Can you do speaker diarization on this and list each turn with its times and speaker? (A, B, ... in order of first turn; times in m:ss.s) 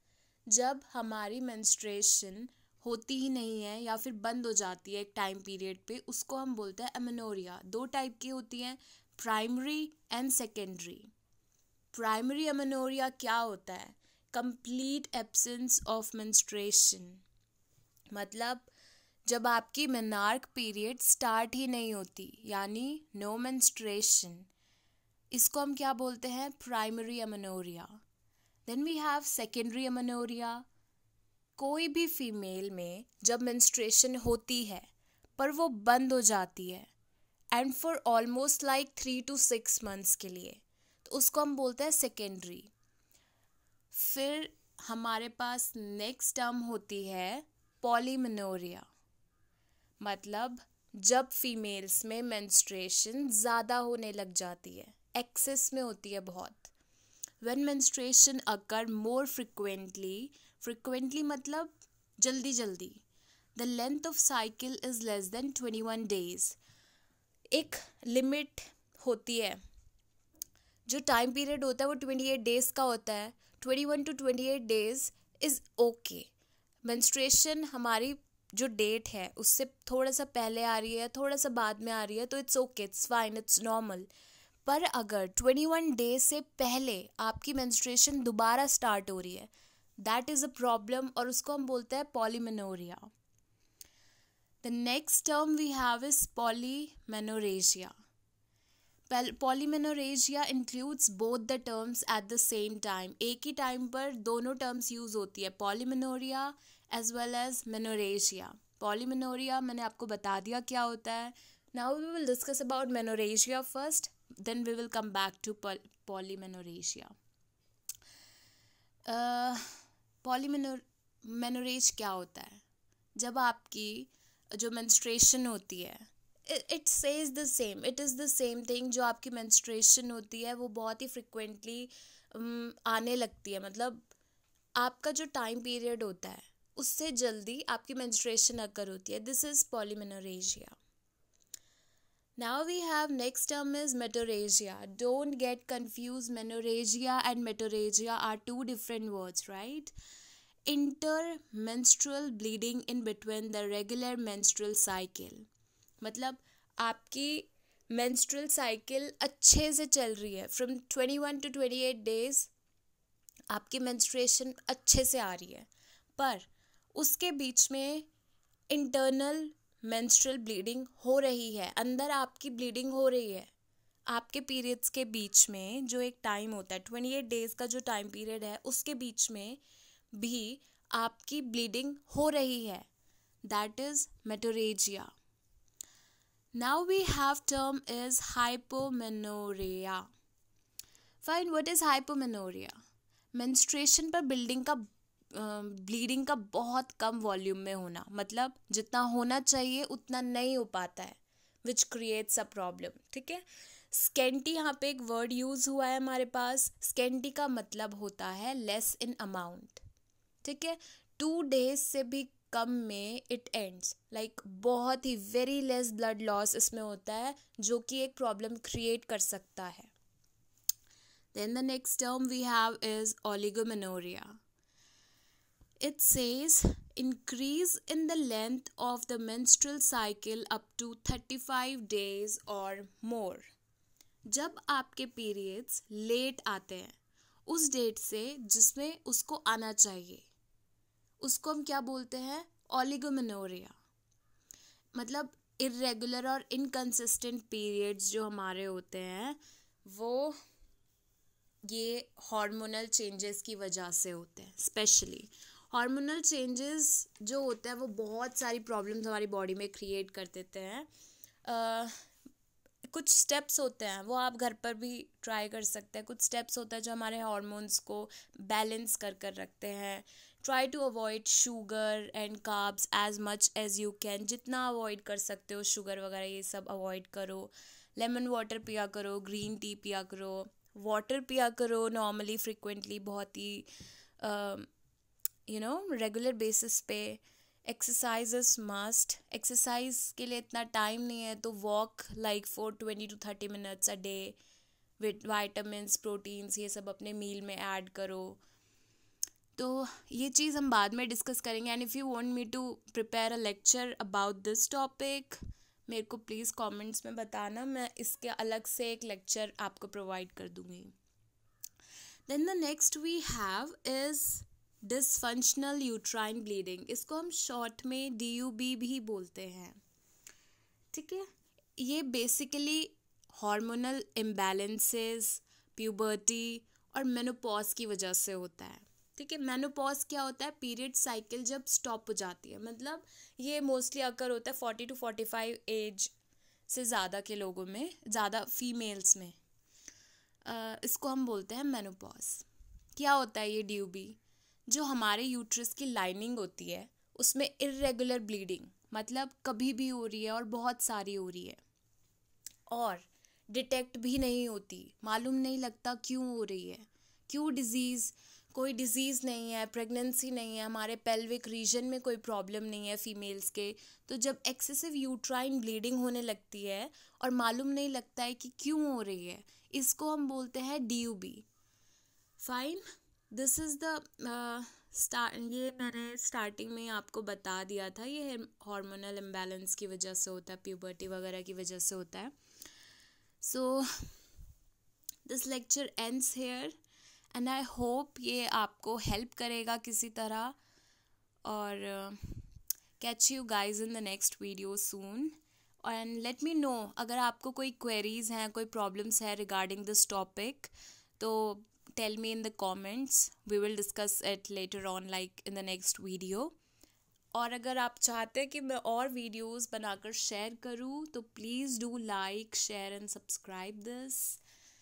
0:00.5-0:11.1 A
0:11.9-0:17.2 A
0:18.1-0:18.7 A
0:19.3-0:24.5 A
0:25.3-0:28.0 A
0:28.7-0:30.6 A
0:31.6-0:36.9 A
0:37.5-0:42.7 A
0:43.9-0:48.9 A
0:50.0-0:56.7 A
0:57.4-1:03.0 A
1:03.6-1:06.6 A
1:07.5-1:09.6 A
1:10.9-1:16.3 A
1:16.8-1:24.1 A
1:24.7-1:33.1 A
1:34.6-1:37.9 A
1:39.1-1:57.1 A
1:59.1-2:02.6 A
2:03.2-2:14.1 A
2:14.8-2:20.8 A
2:22.4-2:29.9 A
2:30.7-2:35.4 A
2:36.0-2:42.5 A
2:43.5-2:48.1 A
2:48.7-2:53.5 A
2:54.1-2:59.6 A
3:00.1-3:02.9 A
3:03.4-3:05.1 A
3:06.6-3:10.1 A
3:11.2-3:12.8 A
3:13.3-3:29.8 A
3:30.4-3:39.9 A
3:41.3-3:44.4 A
3:45.8-3:53.5 A
3:54.3-3:56.9 A
3:57.5-4:00.3 A
4:01.2-4:03.7 A
4:05.0-4:10.4 A
4:11.7-4:20.9 A
4:21.4-4:22.0 A
4:22.9-4:43.7 A
4:44.2-4:44.7 A
4:45.5-4:54.4 A
4:55.0-4:58.4 A
4:59.6-5:10.9 A
5:12.3-5:19.8 A
5:20.9-5:36.1 A
5:36.7-5:39.4 A
5:40.4-5:51.6 A
5:52.7-6:11.5 A
6:12.4-6:22.3 A
6:23.4-6:24.1 A
6:25.3-6:26.8 A
6:27.3-6:30.6 A
6:31.4-6:32.4 A
6:33.0-6:46.5 A
6:47.3-6:54.4 A